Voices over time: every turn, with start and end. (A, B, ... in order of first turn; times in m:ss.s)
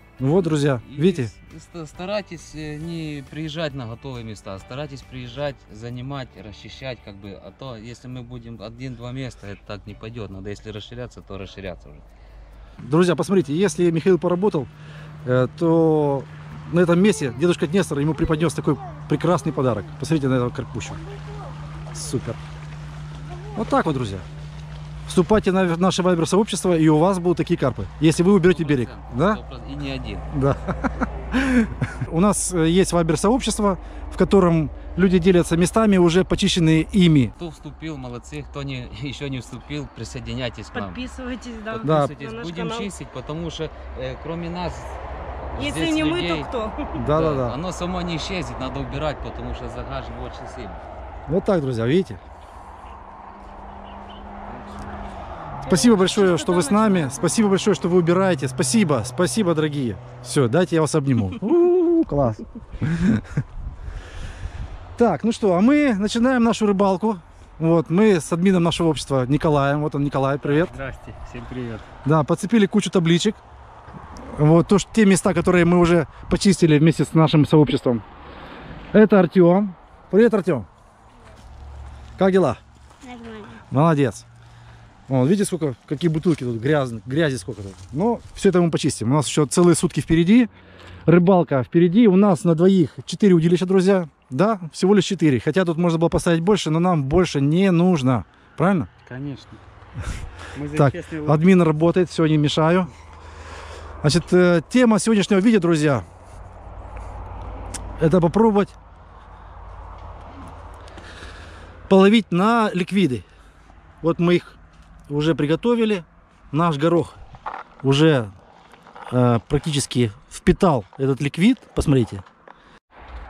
0:00.2-0:01.3 A
0:00.6-0:12.0 B
0:12.8-0:14.7 A
0:15.2-0:21.0 A
0:18.1-0:20.0 C
0:20.8-0:22.1 C
0:21.9-0:22.4 A
0:23.2-0:23.8 C
0:23.6-0:24.3 A
0:25.1-0:29.4 A
0:28.5-0:30.3 B
0:30.3-0:37.3 A
0:37.4-0:41.0 B
0:40.7-0:42.9 D
0:41.7-0:45.0 B
0:41.8-0:42.1 A
0:45.5-0:46.5 B
0:45.6-0:46.8 D
0:47.0-0:47.6 A
0:47.0-0:50.8 B
0:51.3-0:52.2 A
0:54.5-0:54.8 B
0:55.6-0:57.4 D
0:55.7-1:03.3 A
1:05.0-1:10.7 A
1:10.4-1:11.9 E
1:12.0-1:13.4 A
1:14.3-1:18.0 A
1:18.9-1:20.7 A
1:22.2-1:22.6 A
1:23.0-1:23.6 C
1:23.7-1:24.2 A
1:25.1-1:30.5 A
1:31.1-1:38.9 A
1:39.0-1:39.6 E
1:40.5-1:41.4 E
1:40.7-1:42.9 A
1:44.0-1:46.1 A
1:48.0-1:48.8 A
1:51.9-1:53.2 A
1:54.0-1:57.2 A
1:57.8-1:58.3 A
1:59.1-2:02.2 A